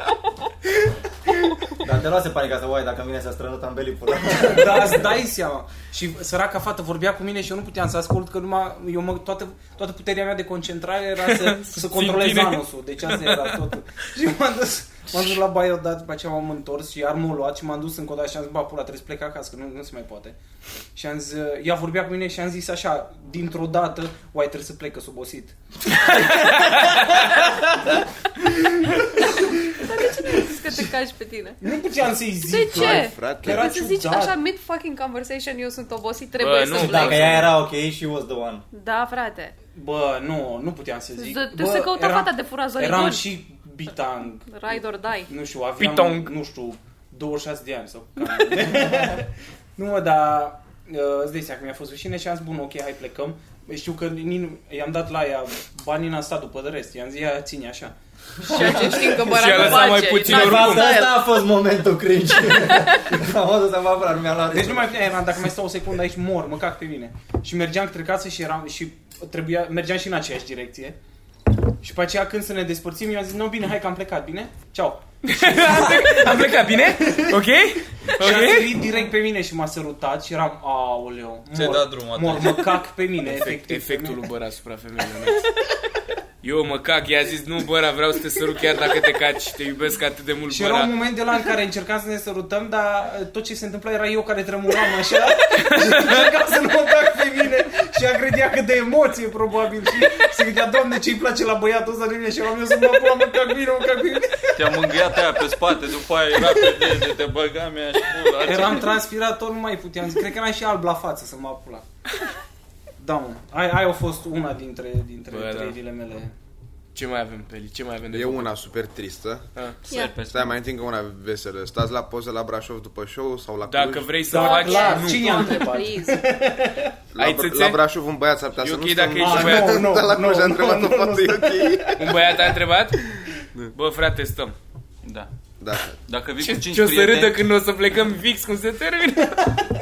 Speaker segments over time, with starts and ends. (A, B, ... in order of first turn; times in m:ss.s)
0:01.8-0:05.2 A
0:04.3-0:20.4 B
0:11.2-0:13.6 C
0:20.9-0:27.2 B
0:26.1-0:26.8 C
0:29.2-0:31.6 D
0:31.6-0:34.4 B
0:32.4-0:37.5 D
0:32.7-0:33.7 E
0:36.4-0:37.6 C
0:36.8-0:38.6 A
0:38.7-0:39.5 D
0:39.7-0:57.9 B
0:41.2-0:43.3 D
0:44.5-0:45.3 D
0:45.8-0:46.3 C
0:58.4-1:01.3 D
0:58.5-1:05.2 A
0:58.5-0:59.8 B
0:59.3-1:00.9 C
1:02.5-1:03.0 D
1:04.5-1:11.0 B
1:11.8-1:17.4 B
1:15.2-1:18.8 C
1:18.1-1:24.3 B
1:21.5-1:22.9 F
1:23.2-1:25.5 C
1:26.4-1:30.9 C
1:30.5-1:44.5 B
1:35.7-1:36.2 C
1:44.5-1:49.0 F
1:48.4-1:51.8 B
1:53.0-1:56.3 B
1:55.3-1:55.8 C
1:56.9-1:58.5 C
1:58.1-1:59.5 E
1:59.9-2:00.6 F
2:00.2-2:04.2 E
2:03.6-2:05.6 C
2:04.2-2:07.0 B
2:04.3-2:06.2 D
2:07.1-2:12.2 E
2:07.2-2:07.8 C
2:08.6-2:09.9 C
2:09.2-2:12.2 B
2:12.0-2:13.0 C
2:13.7-2:14.5 C
2:15.0-2:15.3 F
2:15.6-2:16.0 E
2:16.0-2:17.4 F
2:16.4-2:19.6 C